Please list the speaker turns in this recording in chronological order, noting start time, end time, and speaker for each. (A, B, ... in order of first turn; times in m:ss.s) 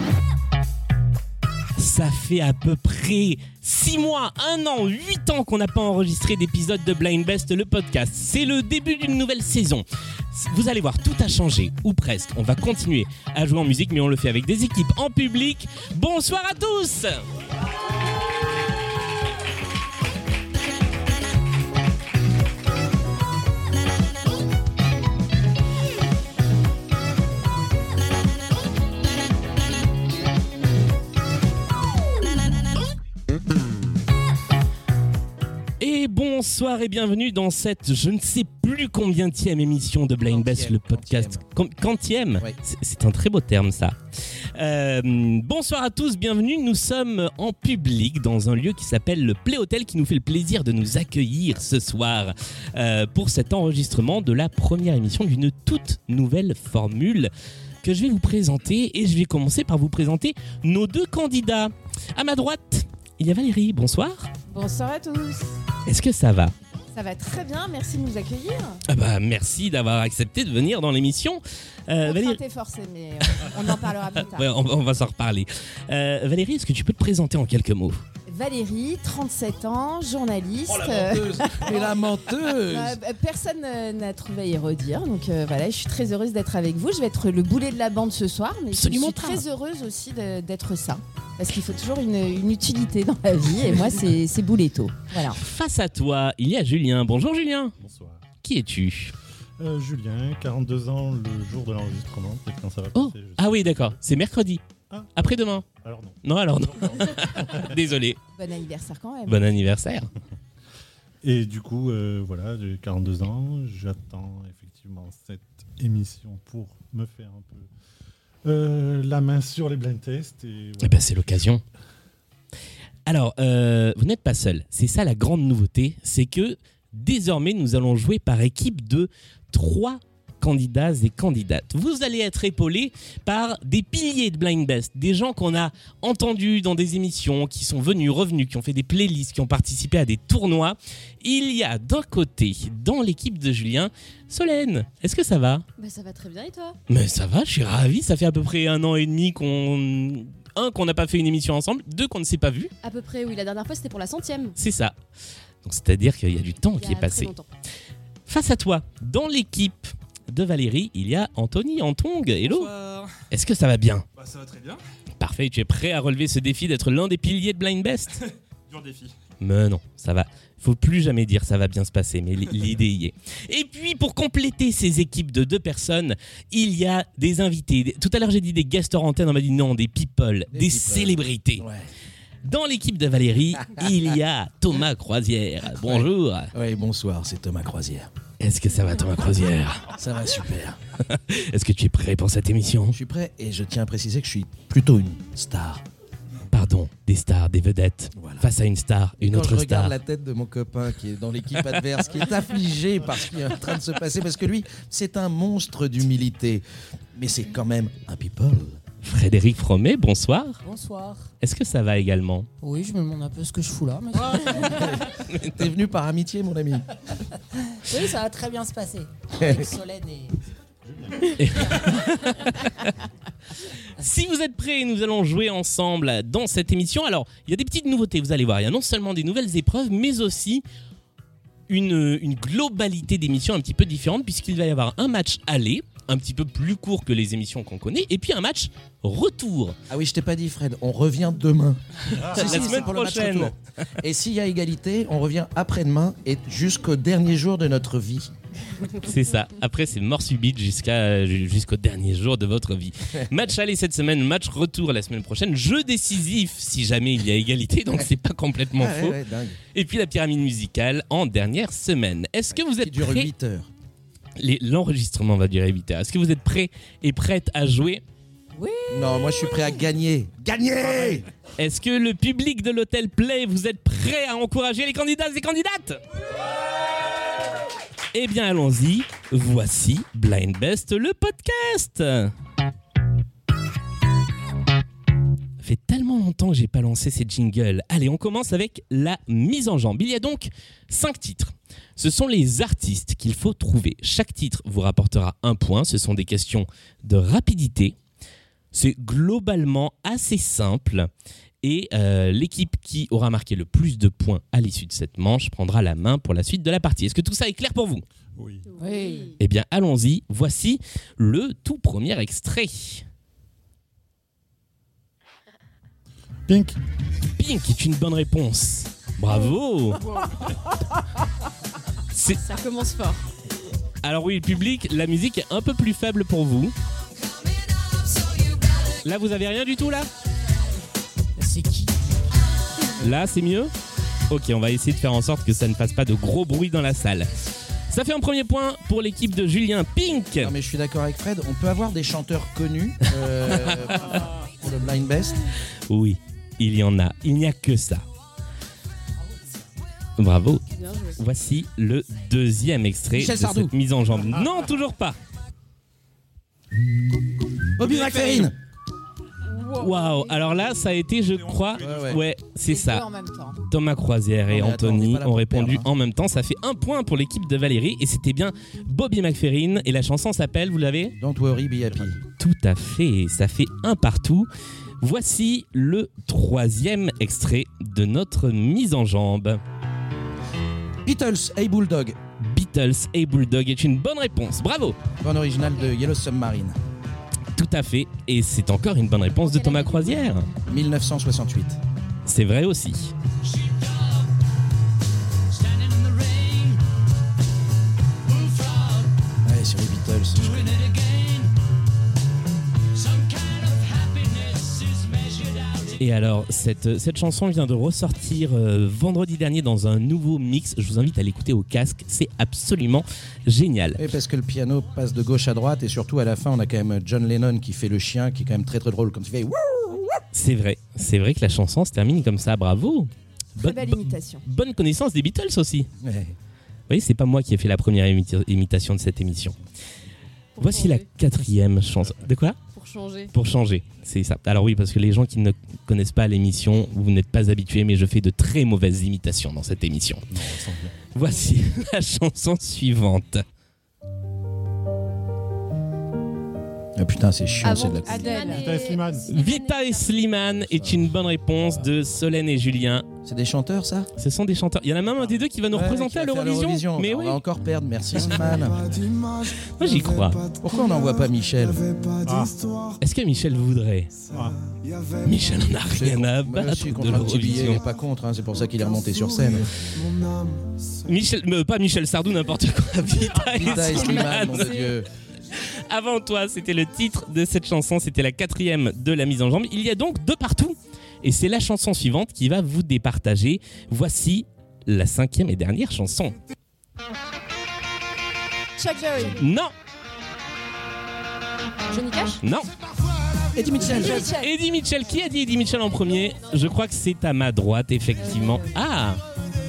0:01.8-0:17.2 A
0:35.8-0:44.0 A
0:40.3-0:41.4 B
0:44.5-0:57.3 A
0:57.8-1:04.3 A
1:04.5-1:05.6 C
1:05.8-1:06.5 A
1:06.9-1:08.8 C
1:08.9-1:12.4 A
1:12.0-1:14.5 C
1:14.2-1:18.0 A
1:18.3-1:35.4 C
1:20.6-1:23.0 B
1:28.7-1:29.4 A
1:35.3-1:37.7 A
1:37.8-1:38.2 D
1:38.4-1:39.1 A
1:39.6-1:43.6 D
1:42.9-1:44.6 A
1:45.2-1:45.6 A
1:45.6-1:46.2 D
1:46.2-1:48.2 A
1:46.7-1:47.7 D
1:48.3-1:49.5 C
1:49.3-1:50.1 A
1:51.2-1:57.7 D
1:58.4-2:01.6 D
2:00.8-2:01.6 A
2:03.0-2:25.6 A
2:25.8-2:26.8 E
2:26.9-2:32.7 A
2:32.8-2:34.6 E
2:34.6-2:34.9 A
2:35.6-2:37.3 A
2:36.8-2:37.5 E
2:38.3-2:42.7 A
2:42.4-2:43.1 F
2:43.3-2:44.0 A
2:44.2-2:44.8 F
2:45.2-2:48.2 A
2:48.7-2:49.1 F
2:49.4-3:01.6 A
3:00.5-3:01.9 B
3:02.4-3:06.5 A
3:05.7-3:08.1 B
3:08.4-3:09.9 A
3:09.9-3:10.8 B
3:11.0-3:13.0 A
3:12.9-3:15.8 B
3:16.5-3:19.9 A
3:18.2-3:18.5 B
3:19.2-3:28.8 B
3:29.0-3:30.6 A
3:30.6-3:31.3 G
3:31.4-3:32.5 A
3:32.6-3:35.0 G
3:35.3-3:35.6 A
3:35.5-3:36.8 B
3:37.7-3:40.4 G
3:39.4-3:39.7 B
3:40.9-3:41.4 D
3:41.4-3:42.9 A
3:44.0-3:50.6 A
3:51.7-3:59.8 A
3:59.9-4:08.3 B
4:02.2-4:02.8 D
4:02.2-4:03.5 A
4:09.0-4:19.2 A
4:18.8-4:19.6 B
4:19.7-4:23.3 A
4:22.8-4:23.7 B
4:24.4-4:28.0 A
4:28.6-4:29.4 C
4:28.9-4:31.2 B
4:31.6-4:36.0 A
4:38.1-4:42.3 A
4:45.6-4:58.0 A
4:58.7-5:01.1 A
5:01.6-5:08.0 A
5:08.4-5:08.7 D
5:08.7-5:09.4 C
5:08.8-5:09.4 G
5:09.4-5:13.0 A
5:16.5-5:16.8 D
5:17.4-5:20.0 A
5:22.1-5:22.4 A
5:22.4-5:23.3 E
5:24.0-5:26.7 A
5:29.0-5:30.1 A
5:31.4-5:31.9 G
5:33.0-5:33.7 A
5:34.3-5:37.3 A
5:37.9-5:40.5 A
5:40.4-5:45.4 B
5:45.9-5:48.0 A
5:50.2-5:50.6 A
5:50.8-5:51.2 E
5:51.2-5:55.2 A
5:53.1-5:53.7 B
5:57.8-5:58.6 B
5:57.8-5:58.5 F
5:59.7-6:03.0 A
6:01.3-6:02.2 F
6:01.8-6:02.2 B
6:02.7-6:03.6 C
6:03.6-6:11.1 A
6:04.5-6:05.9 B
6:11.2-6:12.2 B
6:12.4-6:14.5 A
6:15.0-6:19.6 A
6:21.0-6:22.2 B
6:22.4-6:25.0 A
6:25.2-6:26.8 B
6:27.5-6:30.5 A
6:29.5-6:30.2 E
6:30.6-6:31.8 B
6:32.2-6:33.1 A
6:33.4-6:34.2 E
6:35.5-6:36.8 E
6:38.3-6:39.1 E
6:39.4-6:40.6 B
6:40.4-6:41.5 E
6:43.0-6:46.0 E
6:46.0-6:54.0 A
6:54.0-7:00.2 B
7:00.3-7:05.9 A
7:03.6-7:04.4 C
7:06.0-7:06.3 B
7:06.9-7:09.6 A
7:10.6-7:11.0 E
7:10.6-7:12.6 A
7:12.7-7:13.3 E
7:13.3-7:20.2 A
7:20.3-7:21.1 D
7:21.1-7:23.4 A
7:27.0-7:28.3 B
7:27.6-7:30.2 E
7:27.6-7:29.0 C
7:28.5-7:29.3 D
7:29.3-7:33.0 A
7:33.2-7:34.1 B
7:34.2-7:37.4 A
7:35.7-7:38.9 B
7:38.1-7:38.8 A
7:39.6-7:40.5 A
7:40.6-7:42.0 B
7:42.2-7:42.7 D
7:43.0-7:44.2 A
7:44.3-7:44.6 D
7:45.2-7:47.8 A
7:45.9-7:49.8 B
7:51.0-7:54.9 A
7:53.5-7:55.1 B
7:55.5-8:06.4 A
8:08.8-8:09.4 C
8:09.4-8:09.7 A
8:11.9-8:12.4 E
8:12.4-8:12.7 A
8:13.5-8:14.3 B
8:13.8-8:14.5 C
8:13.8-8:14.1 G
8:14.1-8:19.2 A
8:18.2-8:18.8 C